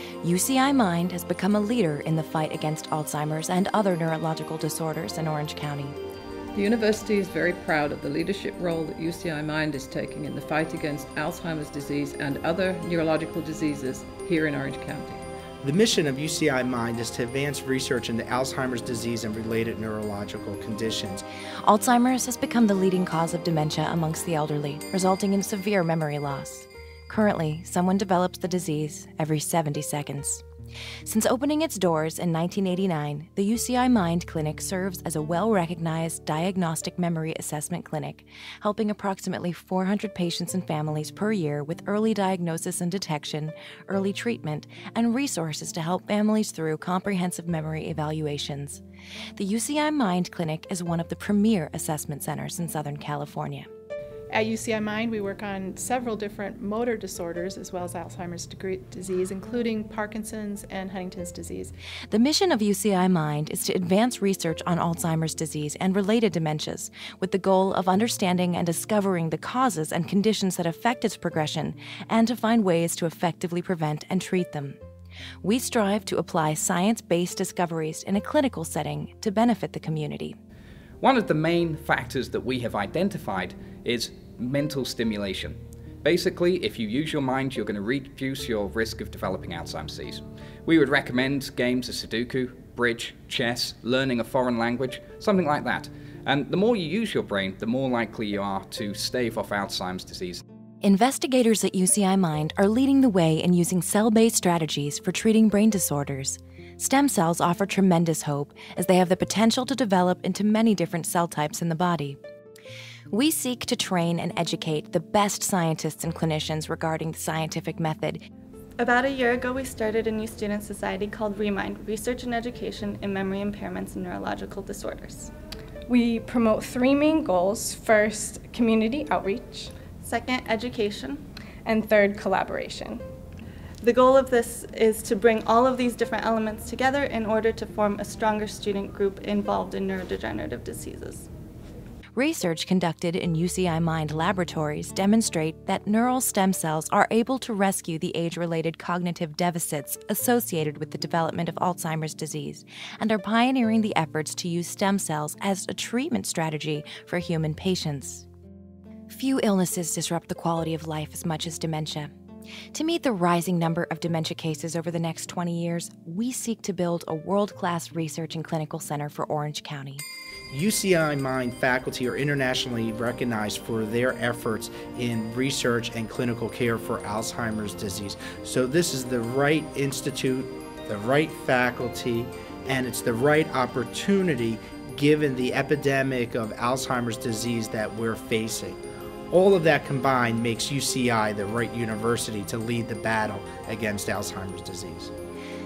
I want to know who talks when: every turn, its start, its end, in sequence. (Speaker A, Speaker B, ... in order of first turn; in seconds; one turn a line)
Speaker A: 0.2-6.0
Speaker B: 6.5-15.2
Speaker C: 15.6-21.2
Speaker A: 21.7-30.4
Speaker A: 31.1-48.8
Speaker A: 49.4-53.7
Speaker D: 54.3-61.7
Speaker A: 62.1-74.8
Speaker A: 75.4-80.4
Speaker E: 81.0-100.4
Speaker A: 100.8-112.2
Speaker A: 113.1-118.2
Speaker F: 118.8-125.3
Speaker G: 125.9-129.7
Speaker F: 130.0-131.2
Speaker G: 131.7-133.0
Speaker F: 133.8-141.3
Speaker A: 142.2-158.3
Speaker A: 159.1-162.1
Speaker A: 162.7-170.0
Speaker C: 170.5-188.8
Speaker C: 189.3-195.1